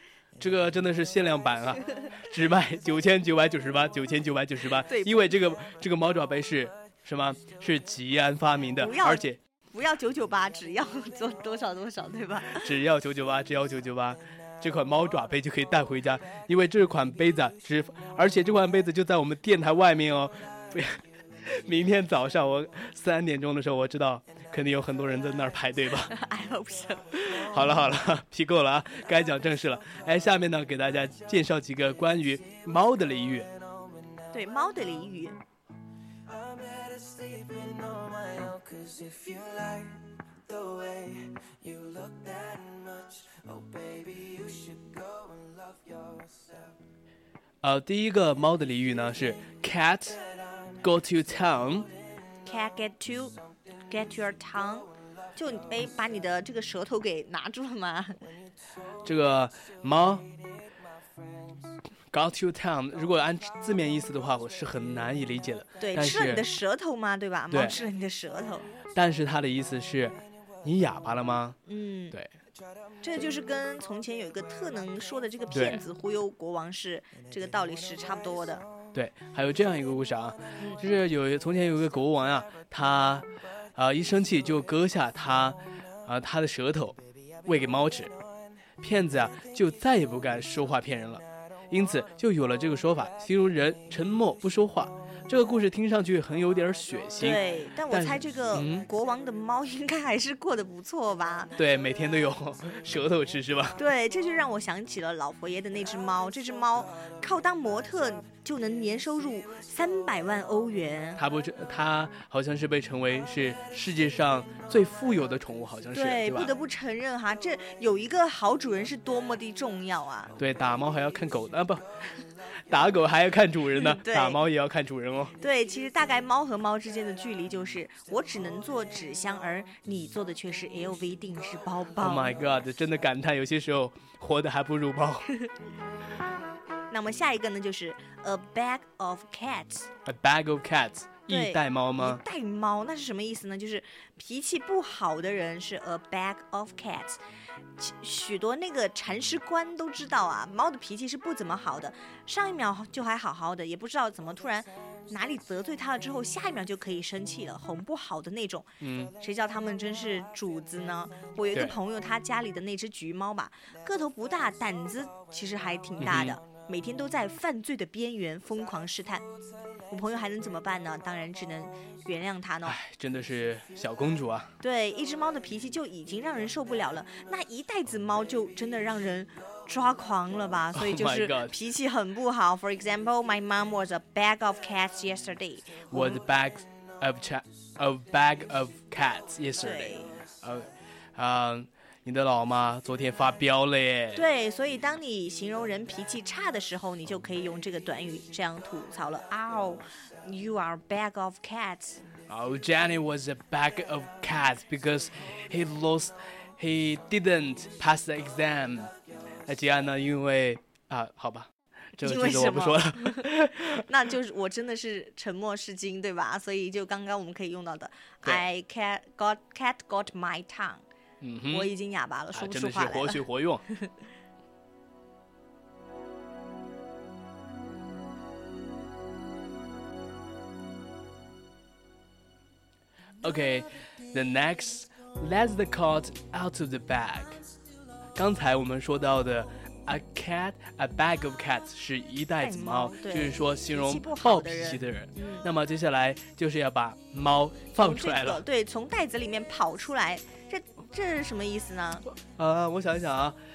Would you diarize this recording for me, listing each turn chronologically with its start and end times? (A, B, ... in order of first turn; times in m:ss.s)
0:00.4-0:09.4 A
0:04.8-0:05.3 B
0:08.8-0:12.7 B
0:12.5-0:26.1 A
0:26.1-0:27.7 B
0:27.3-0:33.5 A
0:33.8-0:34.1 C
0:34.3-0:35.4 B
0:36.2-0:46.7 C
0:47.6-0:50.2 A
0:50.8-0:51.9 A
0:52.4-0:53.3 B
0:53.9-0:58.2 B
0:59.0-1:00.3 A
1:02.1-1:06.5 A
1:05.8-1:08.7 B
1:07.5-1:07.8 A
1:08.9-1:11.6 A
1:11.6-1:12.1 B
1:13.0-1:18.6 B
1:15.5-1:15.8 A
1:18.9-1:28.1 A
1:28.8-1:38.8 A
1:37.2-1:41.5 B
1:41.6-1:43.8 A
1:43.8-1:51.2 B
1:51.2-1:56.5 A
1:55.9-2:00.3 B
2:00.4-2:01.8 A
2:02.7-2:05.3 A
2:03.8-2:04.4 B
2:05.4-2:12.3 B
2:12.0-2:15.3 A
2:16.9-2:19.9 B
2:20.0-2:22.2 A
2:21.3-2:27.2 B
2:27.8-2:49.2 B
2:38.8-2:39.1 A
2:46.0-2:46.4 A
2:49.9-2:52.8 B
2:52.6-2:54.5 A
2:54.6-3:06.2 B
3:00.7-3:01.6 A
3:05.9-3:14.2 A
3:09.6-3:10.1 B
3:14.1-3:22.0 B
3:22.3-3:28.9 A
3:29.4-3:33.8 A
3:32.0-3:40.8 B
3:41.2-3:41.7 A
3:41.5-3:43.2 B
3:42.3-3:43.6 A
3:53.2-3:57.4 A
3:58.1-4:08.4 A
4:02.4-4:05.5 B
4:07.8-4:12.0 B
4:12.1-4:13.4 A